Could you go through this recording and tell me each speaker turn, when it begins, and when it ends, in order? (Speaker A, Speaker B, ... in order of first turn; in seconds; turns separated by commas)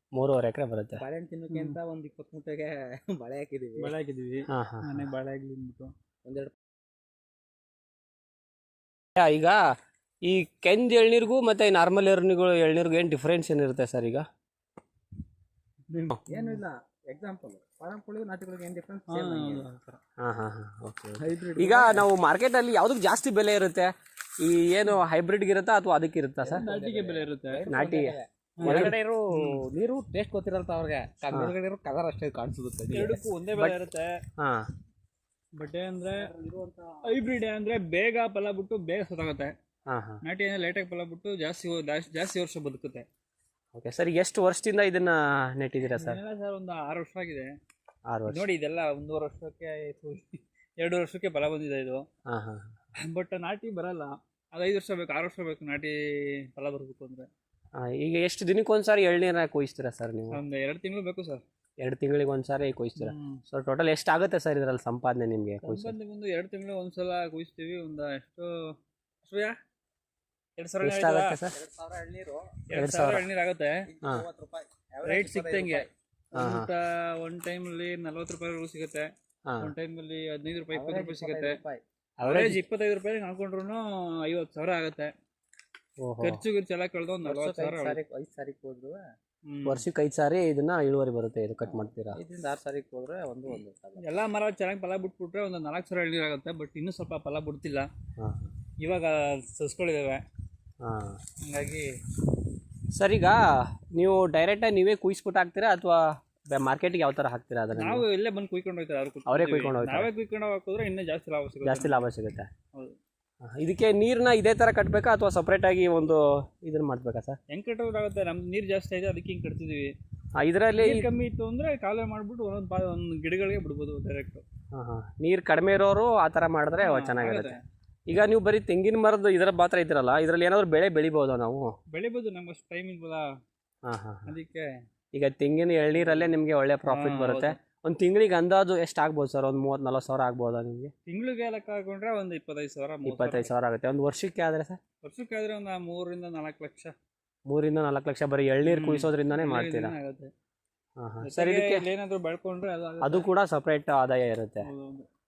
Speaker A: 0.1-1.0, Speaker B: 1.0-3.9, Speaker C: 1.5-1.8, Speaker C: 3.8-5.9, Speaker A: 4.5-5.1, Speaker B: 6.2-6.5, Speaker A: 9.2-9.6, Speaker A: 10.2-14.3, Speaker C: 15.9-16.6, Speaker B: 16.3-19.7, Speaker C: 19.1-20.0, Speaker A: 20.2-26.7, Speaker B: 21.2-22.1, Speaker B: 26.4-33.3, Speaker C: 26.5-27.7, Speaker A: 27.7-28.9, Speaker C: 28.6-29.6, Speaker C: 32.9-34.1, Speaker A: 34.4-34.7, Speaker C: 35.6-36.3, Speaker B: 36.3-37.0, Speaker C: 37.1-39.5, Speaker A: 39.9-40.2, Speaker C: 40.2-43.1, Speaker A: 43.7-46.2, Speaker C: 45.9-47.5, Speaker A: 48.1-48.5, Speaker C: 48.3-52.0, Speaker A: 52.3-52.7, Speaker C: 53.0-56.0, Speaker C: 56.5-57.3, Speaker A: 57.8-60.4, Speaker C: 60.3-61.4, Speaker A: 61.8-66.0, Speaker C: 63.0-63.4, Speaker C: 65.6-68.5, Speaker C: 69.2-69.6, Speaker C: 70.6-71.4, Speaker A: 70.8-71.5, Speaker B: 71.5-72.6, Speaker C: 72.7-73.8, Speaker A: 72.7-73.2, Speaker B: 73.9-75.9, Speaker C: 75.0-79.1, Speaker A: 76.3-76.7, Speaker A: 79.5-79.7, Speaker C: 79.6-81.6, Speaker B: 80.7-81.8, Speaker A: 82.2-82.6, Speaker C: 82.2-85.1, Speaker A: 86.0-86.4, Speaker C: 86.2-88.0, Speaker B: 87.2-89.0, Speaker C: 89.5-89.8, Speaker A: 89.7-92.2, Speaker B: 91.6-94.0, Speaker C: 93.5-97.9, Speaker A: 98.2-98.5, Speaker C: 98.8-100.2, Speaker A: 100.8-101.2, Speaker C: 101.5-101.9, Speaker A: 103.0-108.0, Speaker C: 107.8-112.1, Speaker A: 109.3-110.1, Speaker A: 111.6-112.5, Speaker A: 113.4-117.4, Speaker C: 117.5-119.9, Speaker A: 120.4-121.1, Speaker C: 120.8-124.4, Speaker A: 124.7-127.6, Speaker C: 126.8-127.6, Speaker A: 128.1-131.8, Speaker C: 131.9-133.2, Speaker A: 133.8-134.3, Speaker C: 134.3-134.7, Speaker A: 135.1-140.9, Speaker C: 136.9-137.6, Speaker C: 141.1-143.5, Speaker A: 143.1-144.8, Speaker C: 145.0-146.9, Speaker A: 147.5-149.9, Speaker C: 148.6-150.3, Speaker A: 151.0-151.8, Speaker C: 151.2-153.3, Speaker A: 153.0-154.7, Speaker C: 154.6-155.1